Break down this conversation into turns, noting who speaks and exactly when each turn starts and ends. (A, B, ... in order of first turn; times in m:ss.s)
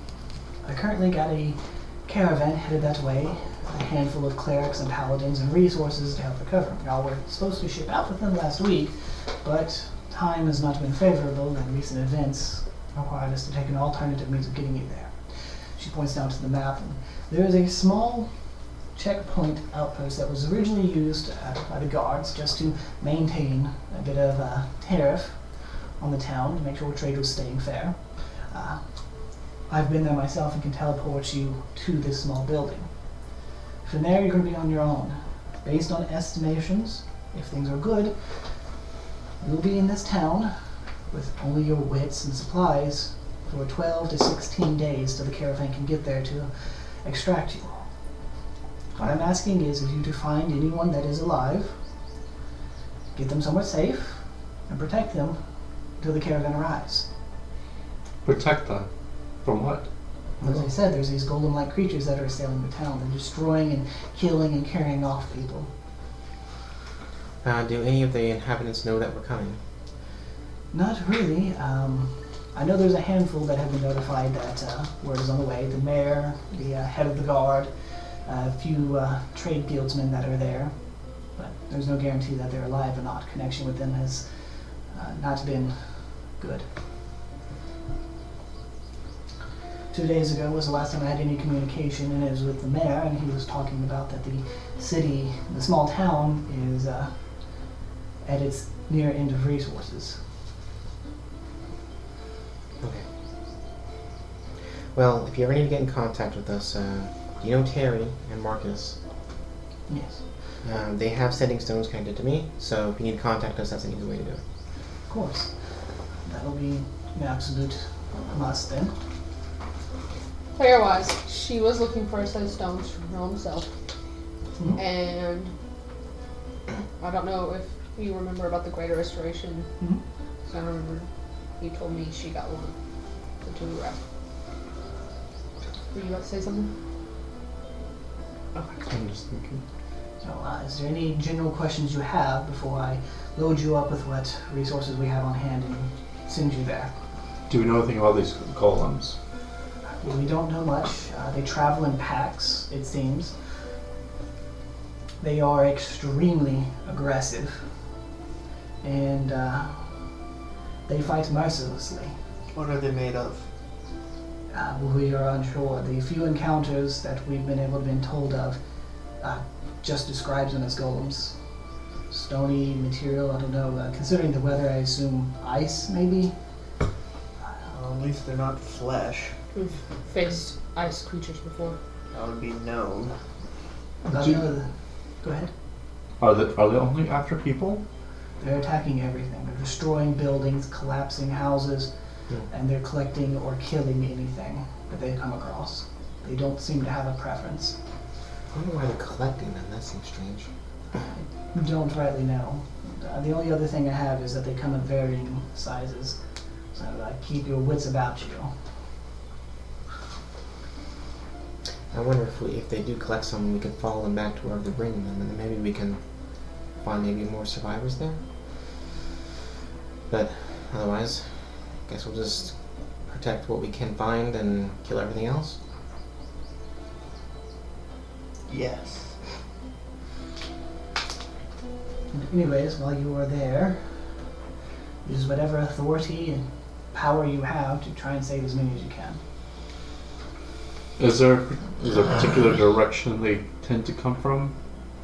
0:00.6-0:18.3 A
0:18.9-0:25.4 A
0:26.0-0:28.8 A
0:29.7-0:32.9 A
0:33.8-0:38.2 A
0:39.4-0:40.5 A
0:41.1-0:47.8 A
0:49.0-0:51.8 A
0:53.1-0:55.4 A
0:56.0-0:57.1 A
0:58.2-0:58.9 B
0:59.4-0:59.8 B
1:00.4-1:05.7 A
1:07.4-1:09.6 C
1:10.7-1:24.3 A
1:24.9-1:26.7 A
1:29.9-1:37.2 A
1:38.2-1:40.2 A
1:44.9-1:49.0 C
1:49.9-1:50.2 A
1:50.6-1:54.4 C
1:55.1-1:55.5 A
1:56.2-1:58.9 A
2:00.6-2:03.7 D
2:04.8-2:05.5 D
2:07.0-2:09.7 D
2:10.5-2:11.1 D
2:11.6-2:12.8 D
2:13.4-2:14.0 D
2:15.9-2:16.7 D
2:18.8-2:19.6 B
2:20.2-2:26.9 A
2:27.5-2:29.2 B
2:30.0-2:33.3 A
2:35.2-2:37.7 A
2:38.8-2:39.9 A
2:40.9-2:42.2 A
2:42.5-2:43.4 E
2:44.5-2:48.6 A
2:49.2-2:51.4 A
2:52.1-2:56.3 A
2:57.7-2:59.3 E
2:59.6-3:01.8 D
3:02.1-3:03.2 E
3:04.0-3:04.7 A
3:04.1-3:04.4 B
3:05.2-3:05.5 A
3:06.2-3:07.8 B
3:08.4-3:11.9 A
3:12.5-3:17.8 A
3:18.5-3:20.5 C
3:21.0-3:26.2 A
3:26.7-3:28.6 A
3:31.9-3:36.0 C
3:36.8-3:38.2 C
3:40.1-3:45.6 C
3:48.5-3:49.2 E
3:52.1-3:54.1 A
3:55.0-3:59.2 A
4:01.0-4:04.5 B